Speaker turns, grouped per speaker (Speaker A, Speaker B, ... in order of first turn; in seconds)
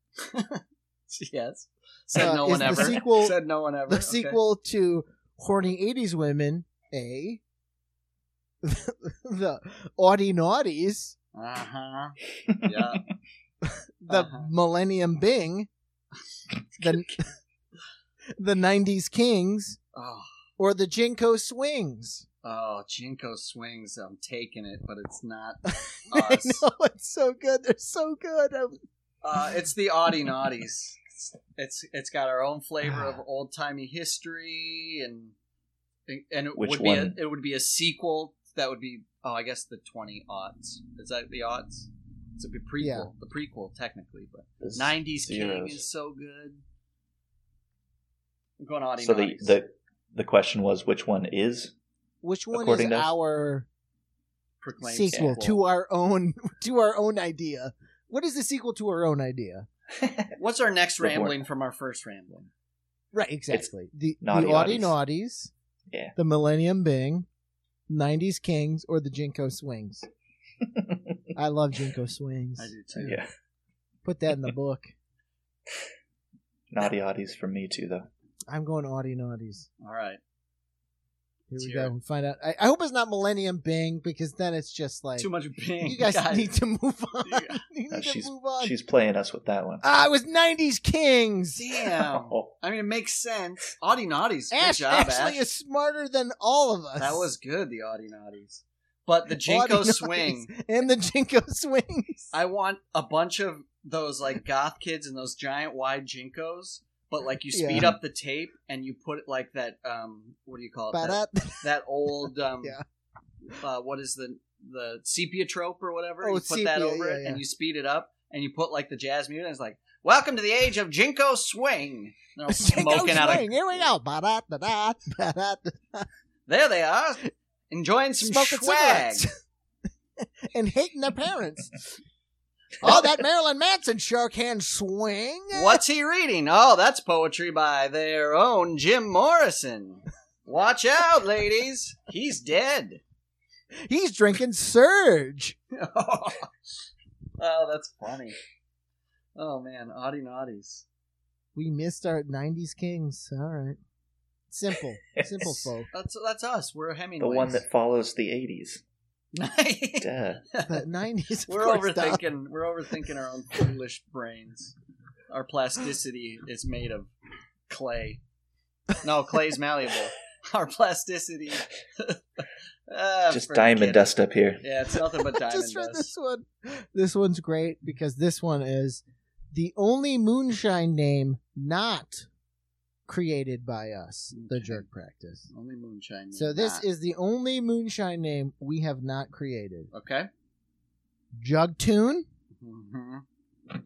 Speaker A: 0.2-4.4, 11.3-13.0, 14.1-14.5, 19.9-20.3, 22.4-26.6, 29.2-35.3, 36.1-46.6, 48.6-49.6, 54.6-55.6, 60.4-62.5, 72.6-73.2, 79.8-80.2, 81.6-81.9, 85.2-86.5, 87.2-87.6, 91.5-95.4, 97.0-100.5, 102.3-112.8, 113.5-123.5, 126.5-129.3, 135.5-143.0, 145.7-146.5, 147.4-148.4, 149.4-150.9, 155.9-157.6, 159.3-160.8, 161.5-164.7, 165.3-167.1, 167.7-168.2, 169.0-176.1, 184.3-184.9, 185.5-186.9, 189.9-190.3, 192.6-193.2
Speaker B: 2.1-3.4, 3.9-7.4, 8.6-11.1, 13.6-15.7, 16.8-17.2, 18.4-19.8, 20.6-22.2, 25.6-28.8, 42.8-43.1, 52.2-53.7, 54.8-59.7, 63.1-65.5, 66.2-67.3, 67.9-70.1, 71.4-73.1, 74.0-74.9, 78.5-79.7, 81.5-85.3, 85.8-88.7, 89.8-91.8, 94.5-97.3, 99.3-102.3, 107.5-107.9, 110.9-111.7, 116.2-117.4, 122.5-126.1, 128.2-129.3, 130.2-131.9, 132.8-135.8, 143.8-145.6, 151.6-153.8, 154.5-155.9, 160.7-162.2, 175.3-182.3, 183.1-185.5, 186.3-189.9, 191.4-192.3
Speaker C: 36.5-37.2, 44.6-45.8, 49.0-51.7, 52.5-53.1, 55.1-55.4, 60.0-60.3, 61.0-61.4, 64.2-65.0, 65.9-66.2, 70.7-71.2, 73.0-73.3, 76.7-78.1, 87.9-89.9, 92.1-92.5, 155.2-155.5, 157.2-158.8, 160.0-160.4, 173.3-174.6